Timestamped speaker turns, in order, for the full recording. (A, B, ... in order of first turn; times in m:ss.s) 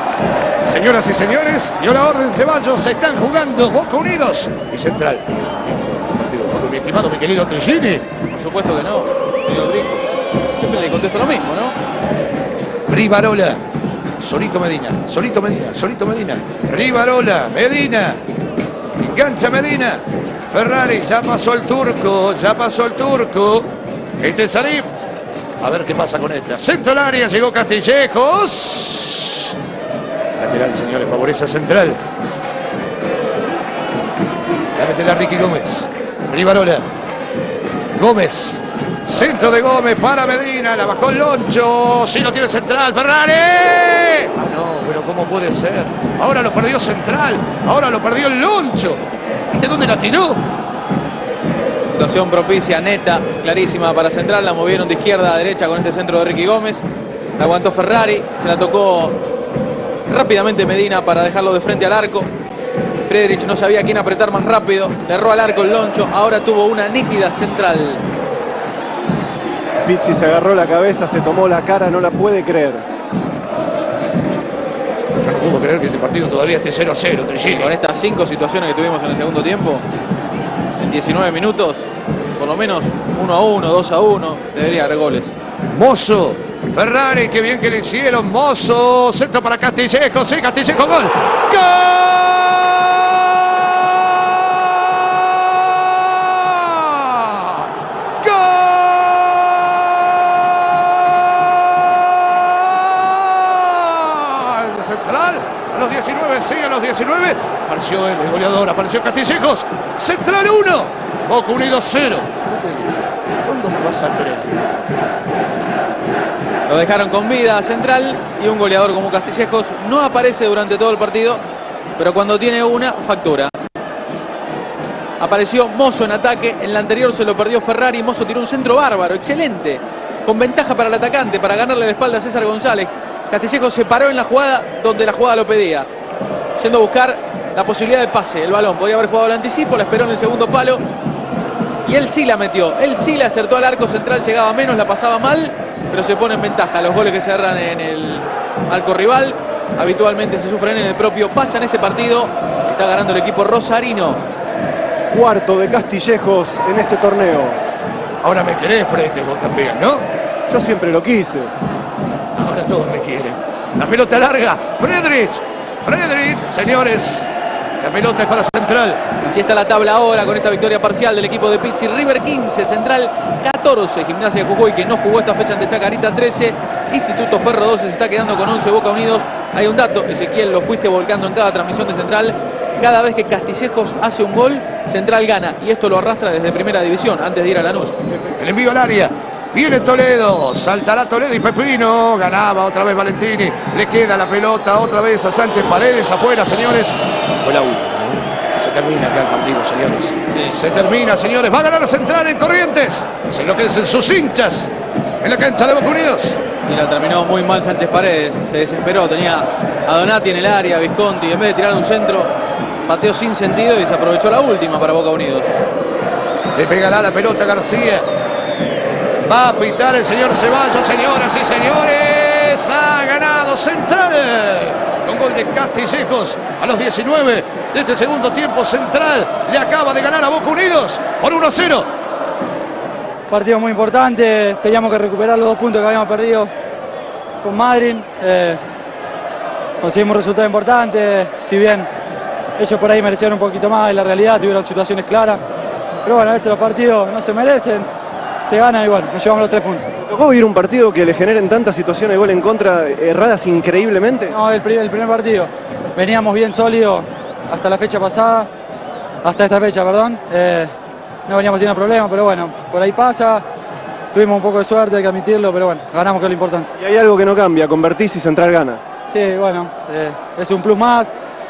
0:00.6-0:08.0 A
0:08.3-0:10.0 B
0:10.6-0:11.8 B
0:12.9-0:13.6 A
0:14.2-0:18.2 A
0:19.0-0:23.7 A
0:24.2-0:24.9 A
0:25.6-0:29.6 A
0:30.4-0:32.0 A
0:34.8-0:36.9 A
0:38.0-0:50.4 A
0:51.9-0:56.8 B
0:57.4-0:59.2 B
1:00.1-1:02.3 B
1:03.0-1:08.0 B
1:09.8-1:12.8 C
1:15.2-1:17.7 A
1:17.4-1:19.8 B
1:20.8-1:25.4 B
1:25.7-1:33.3 A
1:34.6-1:37.7 A
1:38.2-1:54.5 A
1:56.7-2:01.4 B
2:02.0-2:03.5 B
2:05.2-2:15.9 B
2:16.6-2:20.8 B
2:21.9-2:34.2 B
2:35.1-2:37.6 C
2:38.2-2:40.1 A
2:40.5-2:41.5 C
2:42.4-2:47.3 A
2:47.8-2:49.0 A
2:49.2-3:08.0 B
3:08.4-3:24.7 A
3:25.2-3:26.4 A
3:26.6-3:32.3 B
3:32.9-3:35.6 B
3:36.6-3:38.1 A
3:39.2-3:51.9 A
3:53.3-3:56.5 D
3:57.4-3:58.6 D
3:59.8-4:01.9 D
4:02.6-4:05.4 D
4:06.0-4:07.9 D
4:08.4-4:09.9 D
4:10.0-4:14.3 C
4:14.3-4:18.5 D
4:19.2-4:20.7 D
4:21.3-4:23.4 D
4:24.1-4:26.7 D
4:26.8-4:28.8 C
4:29.1-4:31.1 D